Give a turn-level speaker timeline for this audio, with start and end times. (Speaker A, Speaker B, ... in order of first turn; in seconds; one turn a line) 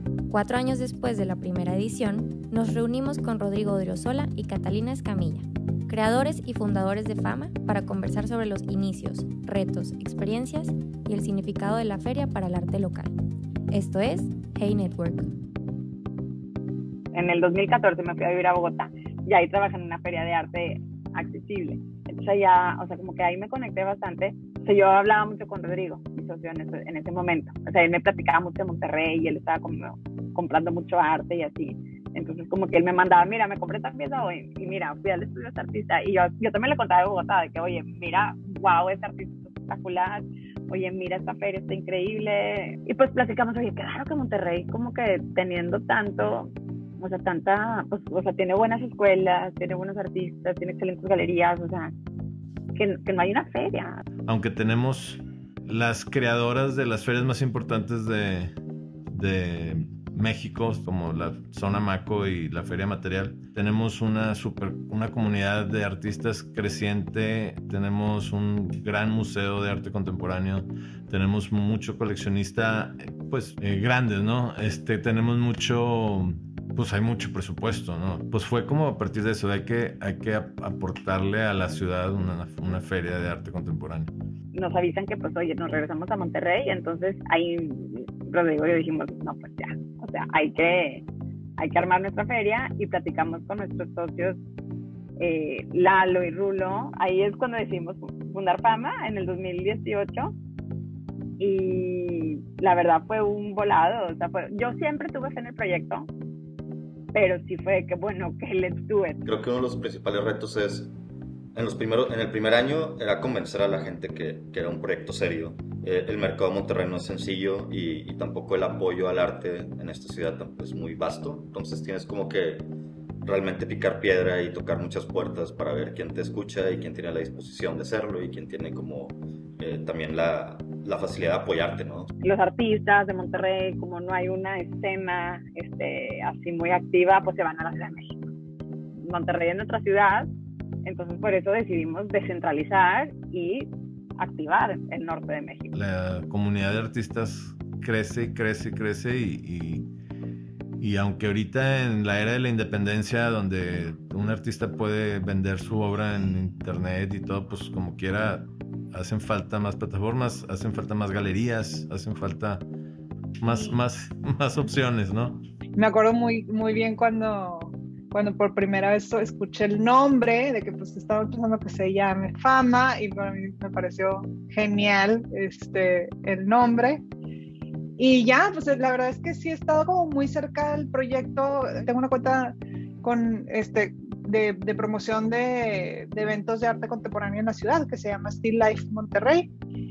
Speaker A: 0.3-13.1
Speaker A: 13.7-15.2
Speaker B: 17.1-51.9
Speaker B: 52.7-54.0
Speaker C: 54.2-58.5
Speaker C: 59.1-84.1
Speaker B: 84.5-91.0
Speaker B: 91.6-94.4
Speaker B: 95.2-100.3
Speaker B: 101.4-106.1
Speaker B: 107.1-109.2
Speaker D: 109.2-110.9
Speaker D: 111.5-122.7
Speaker D: 123.2-132.1
Speaker B: 132.2-138.3
Speaker B: 139.0-140.3
Speaker B: 140.8-145.7
Speaker C: 145.7-149.9
Speaker C: 150.8-162.7
Speaker C: 163.4-165.4
Speaker E: 165.8-177.0
Speaker E: 178.0-189.5